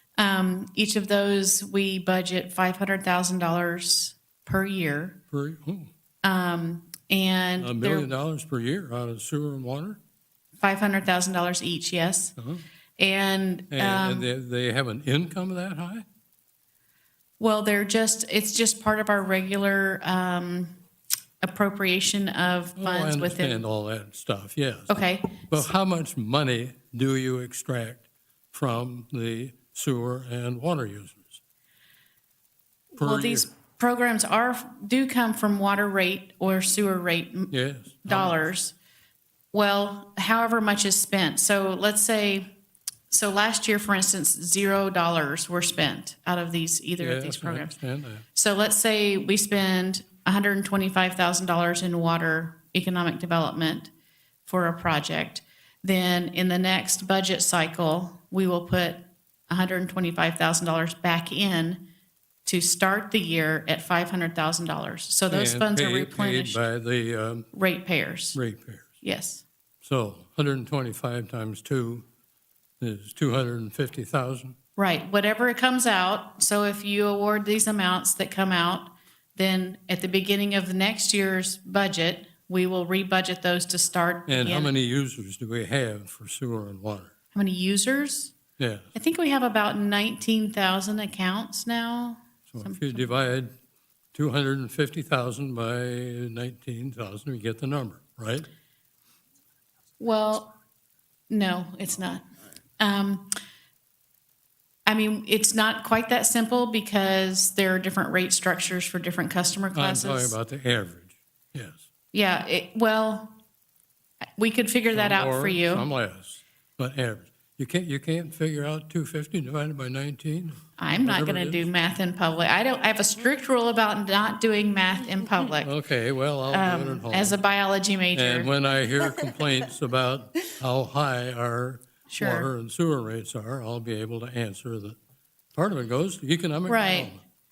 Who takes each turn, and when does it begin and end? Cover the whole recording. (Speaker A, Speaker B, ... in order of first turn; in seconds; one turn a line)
Speaker A: 0.2-5.2
Speaker B: 5.3-5.9
Speaker A: 6.2-8.1
Speaker B: 7.6-10.0
Speaker A: 10.6-12.3
Speaker B: 12.4-12.6
Speaker A: 13.0-14.3
Speaker B: 13.7-16.1
Speaker A: 17.4-20.7
Speaker A: 21.4-23.6
Speaker B: 22.8-31.4
Speaker A: 24.9-25.7
Speaker A: 32.9-37.5
Speaker B: 33.0-33.5
Speaker B: 37.5-38.5
Speaker A: 38.0-38.7
Speaker A: 39.5-42.5
Speaker A: 43.1-47.8
Speaker B: 47.0-48.2
Speaker A: 48.4-53.9
Speaker A: 54.5-61.8
Speaker A: 62.5-66.6
Speaker B: 65.3-67.5
Speaker A: 67.5-68.4
Speaker B: 68.3-68.9
Speaker A: 69.0-69.4
Speaker B: 69.8-72.0
Speaker B: 72.8-74.5
Speaker A: 74.8-84.7
Speaker B: 84.3-87.1
Speaker A: 87.3-88.3
Speaker B: 88.6-88.9
Speaker A: 89.0-93.1
Speaker B: 92.5-93.5
Speaker B: 94.1-98.5
Speaker A: 100.0-100.5
Speaker A: 101.3-102.2
Speaker A: 102.8-103.3
Speaker A: 104.9-110.4
Speaker B: 109.7-111.8
Speaker A: 112.1-113.3
Speaker A: 114.4-115.9
Speaker B: 114.9-121.7
Speaker A: 120.8-125.7
Speaker B: 125.6-127.4
Speaker A: 126.5-128.5
Speaker B: 128.1-135.0
Speaker A: 132.1-132.5
Speaker B: 135.6-137.2
Speaker A: 136.7-137.1